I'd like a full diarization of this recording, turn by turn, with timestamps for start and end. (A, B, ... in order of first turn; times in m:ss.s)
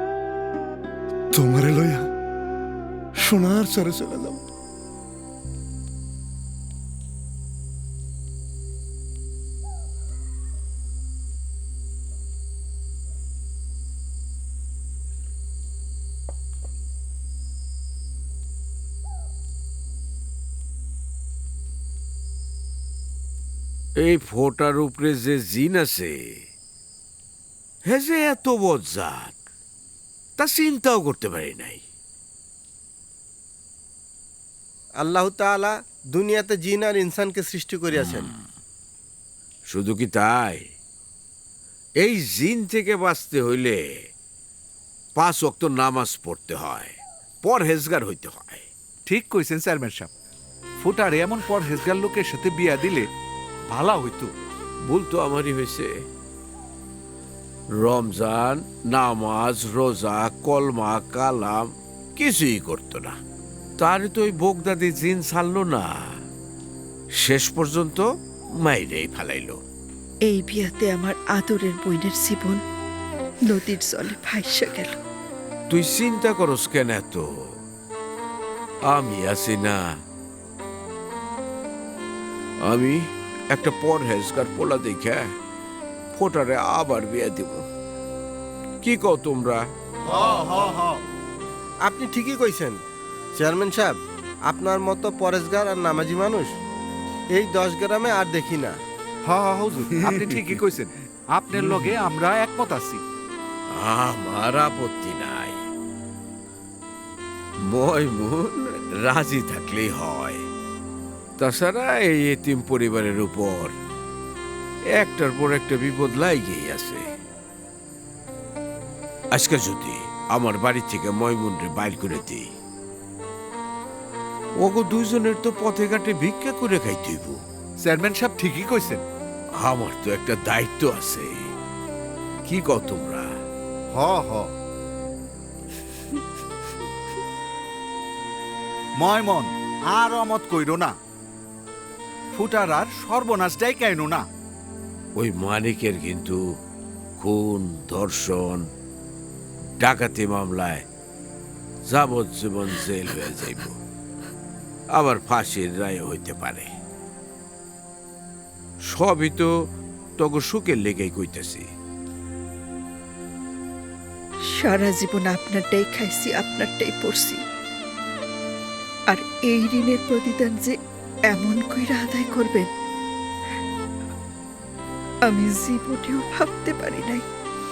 0:01.3-0:02.1 A
0:03.2-0:04.4 A
0:24.0-0:26.4 B
0:27.9-0:29.4 B
0:30.4-0:31.8 B
0:35.0-0:38.2 C
0:38.0-0:38.3 B
0:39.7-0:40.6 B
0:42.0-0:43.8 B
0:45.2-0:48.7 B
0:49.1-0:50.1 D
0:50.8-0:53.1 D
0:53.7-0:54.3 D
0:54.8-0:55.9 B
0:57.7-1:03.2 B
1:03.8-1:05.9 B
1:07.2-1:08.0 B
1:08.6-1:09.6 B
1:10.3-1:12.6 E
1:13.5-1:14.9 E
1:15.7-1:17.2 B
1:18.9-1:19.8 B
1:22.6-1:23.0 B
1:23.5-1:25.3 B
1:26.1-1:27.6 B
1:28.8-1:29.6 B
1:30.2-1:30.9 D
1:31.9-1:32.8 C
1:33.4-1:34.0 C
1:34.5-1:36.5 C
1:37.4-1:38.8 C
1:39.3-1:43.0 D
1:43.7-1:45.6 B
1:47.6-1:50.4 B
1:51.4-1:53.7 B
1:55.0-1:57.0 B
1:59.3-2:02.5 B
2:04.6-2:07.4 B
2:07.8-2:09.0 D
2:09.6-2:11.3 B
2:12.4-2:13.3 B
2:13.9-2:14.5 D
2:19.0-2:20.9 D
2:22.3-2:24.2 D
2:25.2-2:26.4 B
2:27.2-2:28.6 B
2:29.8-2:30.8 B
2:31.8-2:33.8 B
2:34.9-2:36.7 B
2:38.9-2:39.5 B
2:40.2-2:41.7 B
2:44.7-2:47.3 E
2:49.1-2:50.7 E
2:51.3-2:52.6 E
2:55.3-2:57.2 E